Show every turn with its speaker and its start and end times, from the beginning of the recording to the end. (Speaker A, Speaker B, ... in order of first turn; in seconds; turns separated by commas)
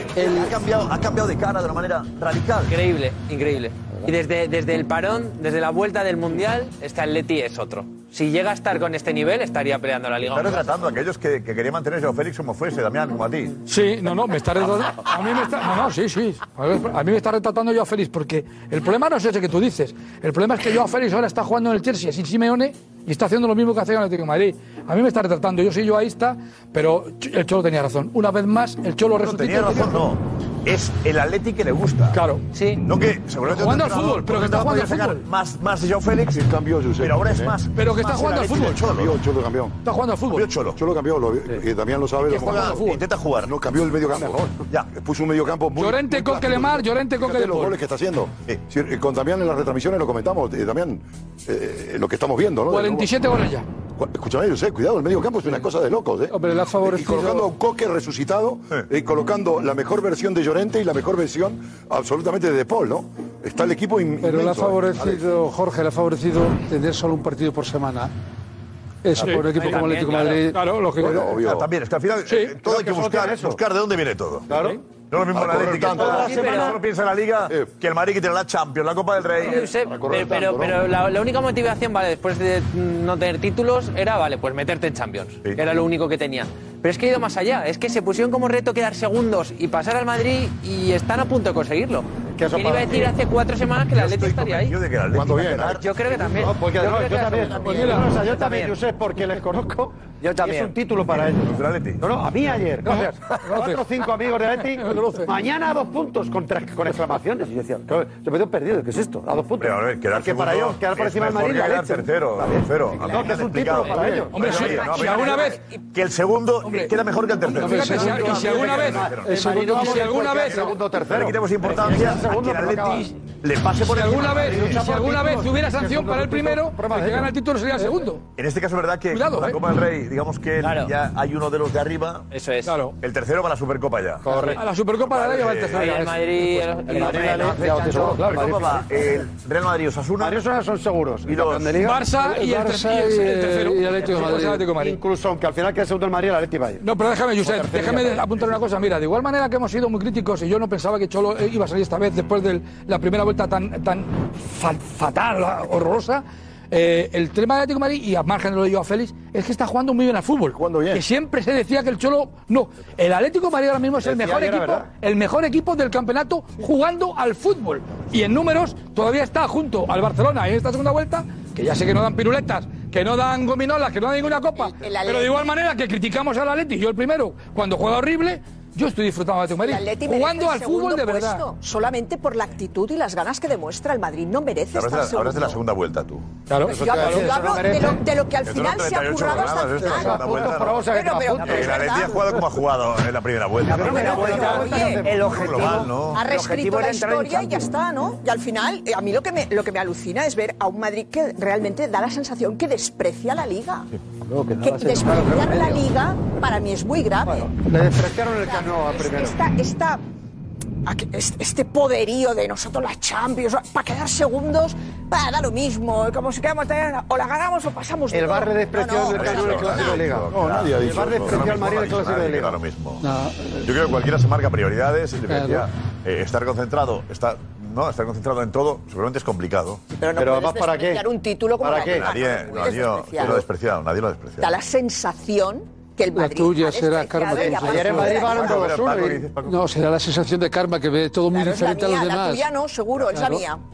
Speaker A: 0.1-2.8, Speaker B: 2.7-10.9, Speaker A: 10.3-13.6, Speaker C: 13.7-30.0, Speaker A: 29.2-32.2, Speaker C: 32.1-32.5, Speaker B: 32.5-32.8, Speaker A: 32.8-36.4, Speaker C: 33.4-35.2, Speaker D: 36.3-37.6, Speaker A: 37.0-39.2, Speaker C: 37.7-38.8, Speaker D: 38.6-39.8, Speaker C: 39.8-40.5, Speaker A: 40.3-40.8, Speaker D: 40.7-42.9, Speaker A: 42.3-43.5, Speaker C: 42.3-43.0, Speaker D: 43.4-53.1, Speaker C: 45.8-47.8, Speaker C: 52.7-53.6, Speaker D: 54.0-65.2, Speaker E: 56.3-57.5, Speaker E: 64.2-68.1, Speaker E: 69.0-70.6, Speaker C: 69.1-71.3, Speaker B: 69.5-70.5, Speaker D: 71.0-71.7, Speaker A: 71.4-74.6, Speaker C: 72.3-72.6, Speaker F: 72.6-73.6, Speaker F: 74.5-74.8, Speaker C: 74.5-74.8, Speaker A: 75.1-79.7, Speaker D: 75.3-76.5, Speaker B: 76.0-76.8, Speaker F: 76.0-76.7, Speaker B: 79.4-94.8, Speaker D: 79.7-80.8, Speaker F: 92.3-93.1, Speaker A: 93.9-95.9, Speaker D: 95.1-95.8, Speaker B: 95.7-98.8, Speaker F: 96.3-114.7, Speaker C: 97.7-98.1, Speaker B: 100.3-100.8, Speaker A: 101.1-102.0, Speaker C: 102.8-103.8, Speaker C: 104.8-105.3, Speaker A: 109.6-125.0, Speaker C: 114.3-115.6, Speaker C: 116.6-116.9, Speaker C: 117.4-120.9, Speaker E: 117.5-118.2, Speaker F: 117.9-123.1, Speaker E: 119.2-120.1, Speaker C: 123.8-128.2, Speaker F: 124.4-127.3, Speaker A: 128.3-132.3, Speaker C: 129.1-129.6, Speaker B: 130.6-130.9, Speaker B: 132.3-132.8, Speaker C: 132.6-133.0, Speaker A: 133.0-136.1, Speaker B: 134.2-134.6, Speaker F: 134.2-134.6, Speaker C: 134.5-136.8, Speaker B: 135.7-138.4, Speaker F: 136.8-139.0, Speaker A: 136.9-140.4, Speaker F: 140.2-142.2, Speaker A: 141.2-141.8, Speaker C: 141.8-145.0, Speaker E: 142.2-144.5, Speaker F: 144.1-146.8, Speaker C: 146.8-181.4, Speaker F: 147.4-148.4, Speaker D: 160.5-161.0, Speaker F: 164.0-164.9, Speaker G: 174.5-175.5, Speaker G: 179.6-185.6, Speaker A: 184.7-186.3, Speaker C: 186.5-187.3, Speaker F: 186.7-188.0, Speaker G: 186.7-192.2, Speaker A: 188.4-196.3, Speaker F: 189.6-191.8, Speaker F: 193.7-195.8, Speaker G: 193.7-195.1, Speaker B: 194.2-195.9, Speaker G: 196.1-203.9, Speaker B: 196.4-197.6, Speaker G: 204.6-207.5, Speaker F: 205.0-205.6, Speaker F: 207.3-209.4, Speaker G: 208.4-210.0, Speaker G: 210.8-220.1, Speaker F: 218.1-222.6, Speaker A: 219.1-223.0, Speaker D: 220.3-221.4, Speaker E: 223.0-223.6, Speaker A: 223.6-229.8, Speaker E: 225.3-225.7, Speaker G: 229.9-233.4, Speaker F: 230.2-231.0, Speaker F: 231.6-232.1, Speaker A: 231.8-234.5, Speaker G: 234.4-238.7, Speaker E: 236.1-242.5, Speaker F: 237.5-239.1, Speaker A: 238.2-239.6, Speaker G: 241.3-243.6, Speaker E: 243.1-243.4